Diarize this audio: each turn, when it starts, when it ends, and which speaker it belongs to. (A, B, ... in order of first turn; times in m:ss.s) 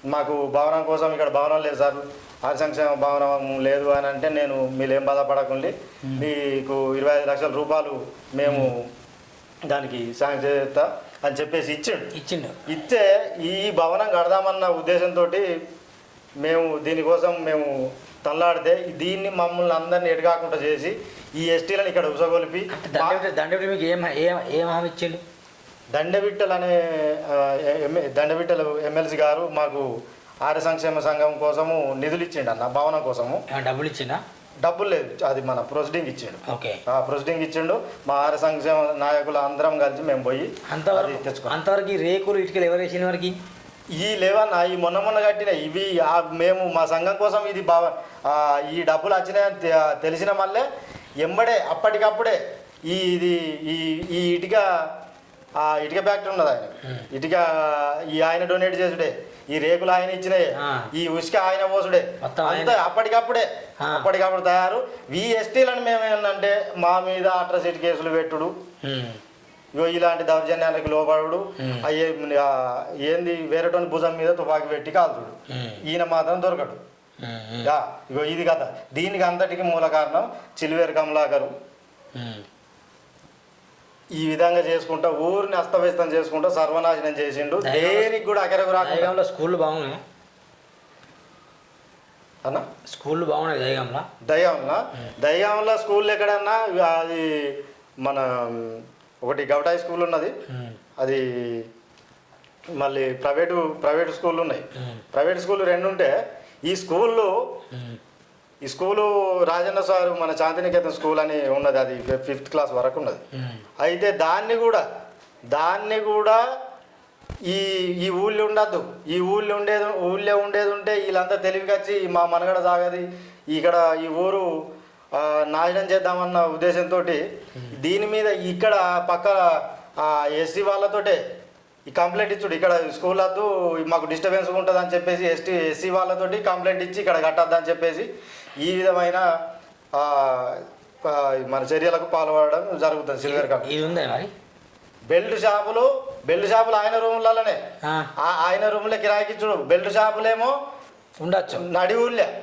0:00.1-0:08.8 A
0:08.4-0:08.7 B
0:09.7-0:12.1 A
0:12.1-0:12.6 B
0:12.7-0:15.5 A
0:16.4-0:23.2 A
0:22.7-0:25.2 B
0:25.9-0:29.9 A
0:30.4-0:33.4 A
0:33.5-0:34.2 B
0:34.6-0:41.6 A
0:36.5-0:36.8 B
0:40.7-0:43.4 B
0:44.0-0:50.6 A
0:51.2-0:54.7 A
0:55.6-1:08.5 A
1:00.6-1:00.9 B
1:02.2-1:02.8 B
1:03.8-1:04.1 B
1:08.8-1:09.2 B
1:09.8-1:15.3 A
1:11.6-1:11.9 B
1:15.5-1:15.8 B
1:15.9-1:16.8 A
1:17.2-1:17.7 B
1:17.6-1:21.5 A
1:22.2-1:22.4 B
1:24.2-1:29.2 A
1:27.6-1:28.1 B
1:28.8-1:30.0 B
1:32.9-1:34.1 B
1:34.3-1:40.3 A
1:40.5-1:40.8 B
1:41.0-1:41.7 A
1:42.8-1:46.1 A
1:44.8-1:45.0 B
1:46.7-1:47.3 A
1:47.7-1:48.0 B
1:48.6-1:53.2 A
1:53.4-1:53.6 B
1:53.8-1:54.8 A
1:55.5-1:56.4 A
1:57.5-2:04.5 A
2:05.2-2:07.2 A
2:07.8-2:11.2 A
2:11.9-2:18.1 A
2:18.6-2:19.2 A
2:20.0-2:23.7 A
2:23.2-2:24.3 B
2:25.1-2:27.6 A
2:27.8-2:28.1 B
2:28.2-2:30.5 A
2:31.2-2:31.7 B
2:31.5-2:32.3 A